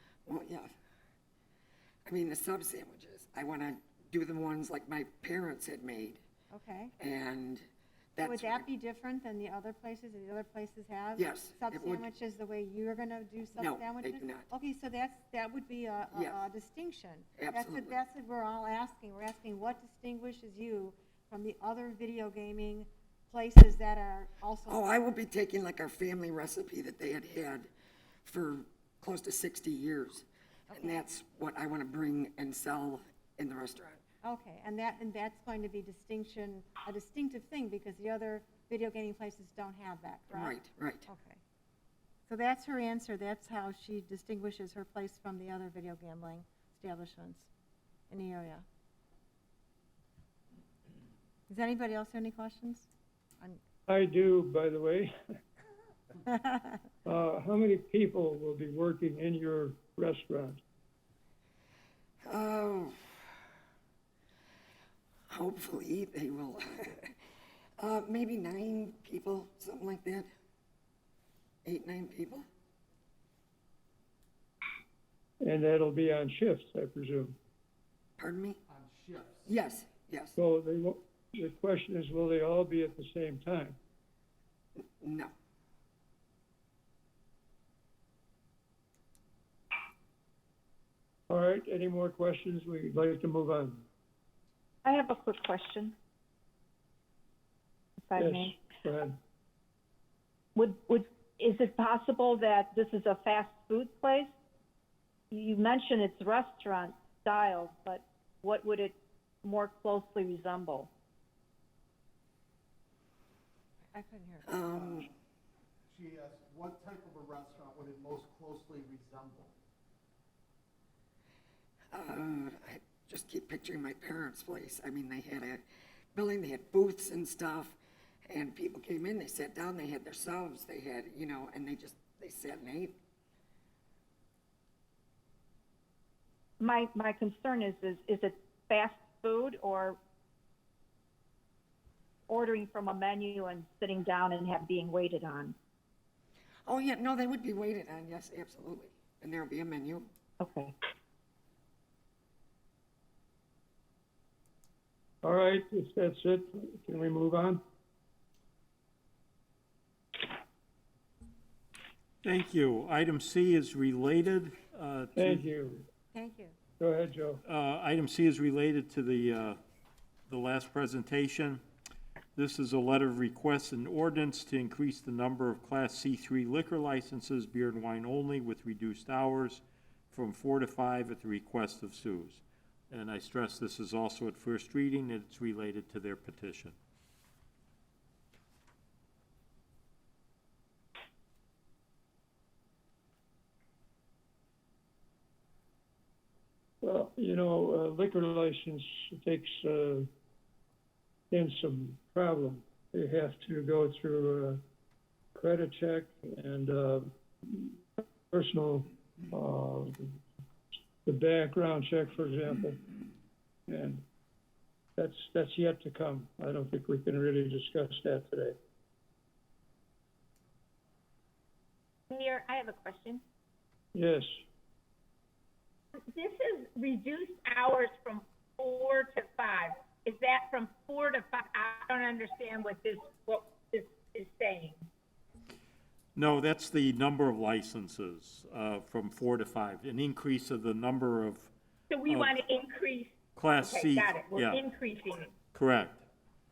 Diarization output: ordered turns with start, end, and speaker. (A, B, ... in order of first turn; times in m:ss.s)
0:00.2-0:00.7 A
0:02.1-0:06.2 A
0:06.5-0:06.9 B
0:07.0-0:07.6 A
0:08.2-0:08.7 A
0:08.2-0:24.8 B
0:11.2-0:12.0 A
0:13.6-0:14.5 A
0:16.1-0:16.4 A
0:17.4-0:18.0 A
0:24.7-0:27.7 A
0:28.2-0:34.0 A
0:30.7-0:31.0 B
0:34.2-0:40.6 B
0:40.3-0:41.0 A
0:41.0-0:41.4 B
0:42.3-0:47.5 B
0:48.1-0:48.6 B
0:51.5-0:52.9 B
0:53.9-0:55.1 C
0:57.0-1:00.6 C
1:02.2-1:03.2 A
1:05.3-1:07.1 A
1:07.8-1:10.3 A
1:11.6-1:12.4 A
1:15.4-1:17.4 C
1:18.2-1:18.6 A
1:18.7-1:19.4 D
1:19.4-1:20.3 A
1:20.4-1:23.8 C
1:25.0-1:25.3 A
1:31.3-1:33.8 C
1:34.8-1:35.9 E
1:38.1-1:38.6 E
1:38.2-1:39.2 C
1:40.6-1:44.3 E
1:45.3-1:50.9 E
1:53.9-1:54.6 B
1:54.4-1:55.1 A
1:55.9-1:59.5 D
2:01.9-2:05.6 A
2:06.2-2:07.8 A
2:08.3-2:13.0 A
2:16.6-2:20.0 E
2:22.3-2:25.6 E
2:26.6-2:30.1 A
2:30.4-2:30.8 E
2:35.2-2:37.6 C
2:42.2-2:45.5 F
2:45.2-2:45.8 C
2:46.1-2:46.5 B
2:46.8-2:47.4 C
2:47.4-2:49.6 F
2:50.3-2:51.6 F
2:52.4-3:06.8 F
3:16.8-3:20.1 C
3:21.3-3:24.6 C
3:25.3-3:30.2 C
3:31.1-3:32.8 C
3:33.7-3:34.0 C
3:35.0-3:38.6 C
3:42.1-3:43.2 G
3:43.9-3:44.3 C
3:46.0-3:54.8 G
3:56.2-4:01.5 F
4:01.9-4:05.3 G
4:02.1-4:02.4 F
4:03.3-4:04.6 F
4:05.5-4:06.0 F